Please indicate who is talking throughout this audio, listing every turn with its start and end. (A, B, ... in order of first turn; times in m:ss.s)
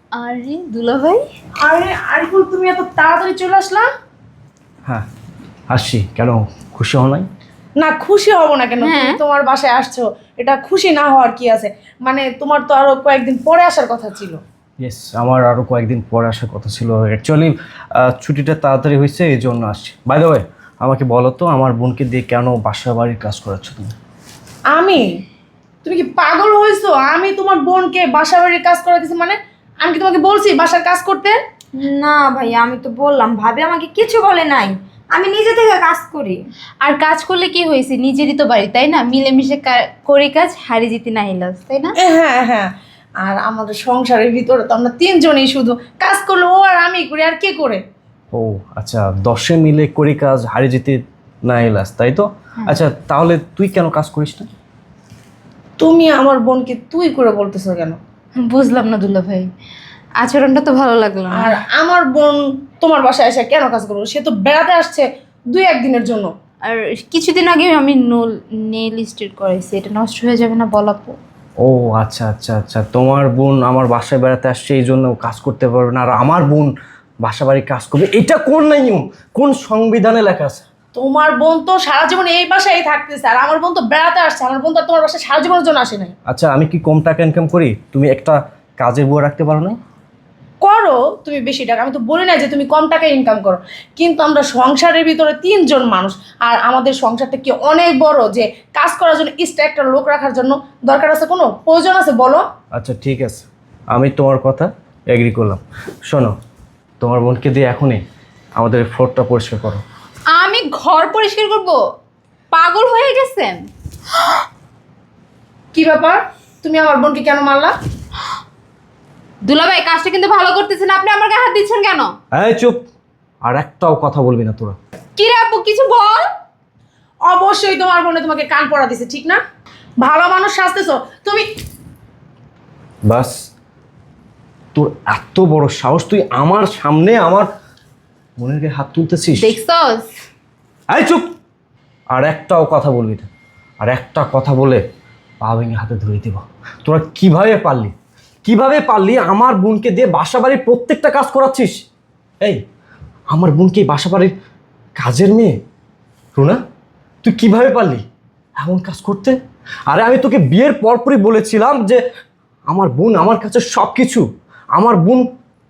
0:00.1-0:01.2 A
0:01.6-0:03.9 B
0:05.7-0:07.3 C
0:07.8-0:14.4 B
0:08.8-0:09.2 A
0:14.8-0:23.9 C
0:24.7-0:25.1 B
0:25.8-0:31.4 B
0:31.8-0:36.4 D
0:36.8-0:41.9 A
0:42.0-0:47.8 B
0:48.3-0:54.5 C
0:55.8-0:58.0 B
0:58.4-0:59.5 A
1:00.2-1:01.5 A
1:01.3-1:06.3 B
1:06.6-1:11.2 A
1:11.6-1:16.7 C
1:17.2-1:20.6 C
1:20.9-1:26.1 B
1:26.3-1:29.8 C
1:30.6-1:42.4 B
1:42.7-1:46.3 C
1:47.0-1:48.0 C
1:48.6-1:49.8 C
1:50.3-1:51.8 A
1:52.5-1:53.6 A
1:55.7-1:57.8 B
1:59.4-2:02.1 A
2:02.3-2:02.8 C
2:03.4-2:04.8 C
2:05.2-2:06.3 A
2:07.2-2:09.4 B
2:10.0-2:11.5 B
2:13.0-2:13.4 C
2:14.7-2:17.5 C
2:18.4-2:19.5 C
2:19.4-2:20.1 A
2:20.9-2:21.3 C
2:22.1-2:23.3 C
2:23.8-2:24.8 C
2:25.4-2:27.9 C
2:28.4-2:31.8 C
2:33.3-2:34.3 C
2:35.0-2:35.6 C
2:36.3-2:36.6 C
2:37.2-2:38.0 C
2:38.6-2:42.0 C
2:42.7-2:45.2 C